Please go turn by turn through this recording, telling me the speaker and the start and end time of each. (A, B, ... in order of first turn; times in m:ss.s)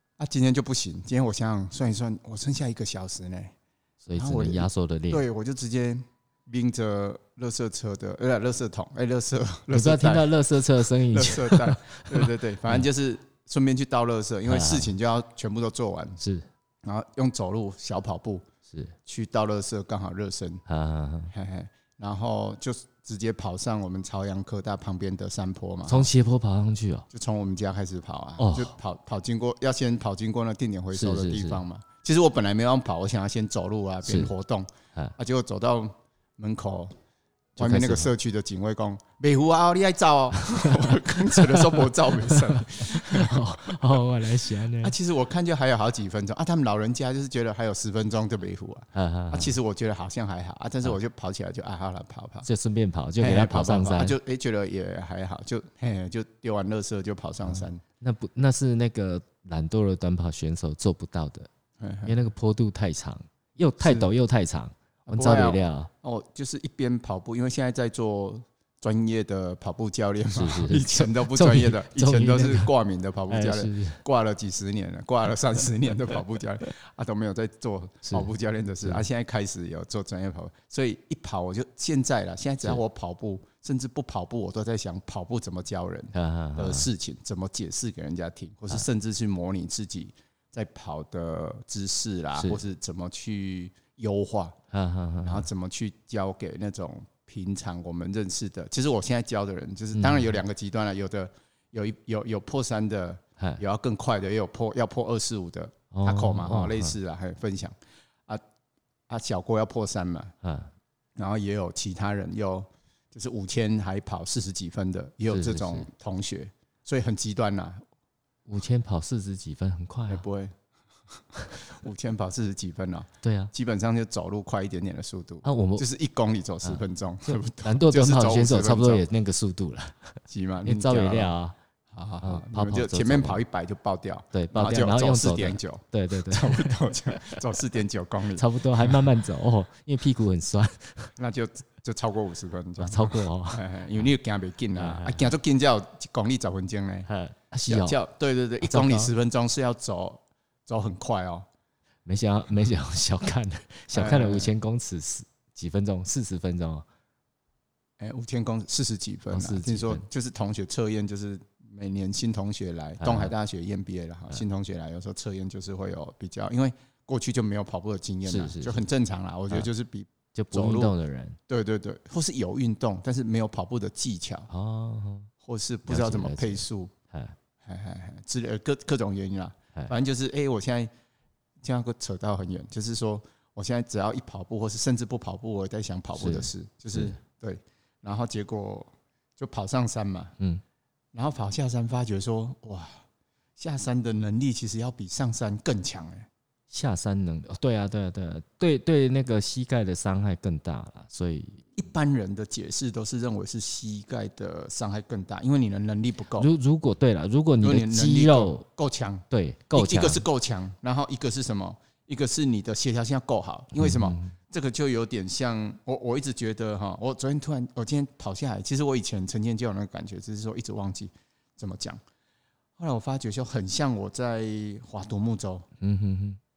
0:00.2-0:03.5 A
0:04.0-0:05.2 B
0:04.2-0:16.2 A
0:09.7-0:12.9 B
0:14.5-0:14.9 B
0:16.2-0:16.5 B
0:16.8-0:18.4 A
0:18.7-0:18.9 B
0:19.0-0:20.6 A
0:20.7-0:21.3 B
0:21.3-0:26.1 A
0:25.9-0:27.0 B
0:27.1-0:36.9 A
0:28.4-0:28.8 B
0:30.9-0:31.6 B
0:34.0-0:34.3 B
0:37.6-0:38.1 B
0:37.6-0:44.0 A
0:40.4-0:44.9 B
0:44.8-0:52.5 A
0:48.9-0:49.5 B
0:52.4-0:54.2 B
0:53.2-0:57.8 A
0:57.4-1:01.5 B
1:01.8-1:02.1 A
1:02.0-1:05.9 B
1:03.8-1:04.1 A
1:05.1-1:34.6 A
1:10.3-1:12.7 B
1:13.3-1:14.0 B
1:18.0-1:18.3 B
1:26.1-1:26.9 B
1:32.4-1:32.6 B
1:34.7-1:35.5 B
1:35.2-1:47.8 A
1:39.9-1:40.4 B
1:43.4-1:43.6 B
1:45.9-1:47.0 B
1:49.1-1:50.3 A
1:50.4-1:50.7 B
1:51.2-1:57.8 A
1:55.3-1:55.9 B
1:58.4-2:00.2 B
2:00.1-2:00.6 A
2:01.6-2:09.0 A
2:03.2-2:03.5 B
2:05.4-2:05.8 B
2:06.6-2:11.6 B
2:10.3-2:11.3 A
2:11.9-2:19.0 A
2:12.2-2:13.4 B
2:14.3-2:17.4 B
2:18.4-2:21.1 B
2:21.2-2:27.1 A
2:22.8-2:23.6 B
2:24.8-2:25.2 B
2:27.0-2:28.0 B
2:27.6-2:31.4 A
2:28.6-2:29.1 B
2:32.0-2:36.8 B
2:33.9-2:34.5 A
2:38.0-2:50.9 A
2:39.3-2:40.0 B
2:43.0-2:43.3 B
2:48.2-2:48.9 B
2:50.3-2:51.4 B
2:51.5-2:54.5 A
2:54.5-2:55.3 B
2:55.4-2:56.9 A
2:55.9-2:57.4 B
2:57.6-3:00.9 A
3:01.6-3:10.3 A
3:06.2-3:07.2 B
3:11.1-3:13.0 A
3:13.6-3:16.3 A
3:16.7-3:21.7 B
3:21.8-3:26.5 A
3:26.3-3:28.6 B
3:27.6-3:42.0 A
3:29.3-3:30.2 B
3:33.7-3:34.3 B
3:42.8-3:45.6 A
3:45.8-3:46.4 B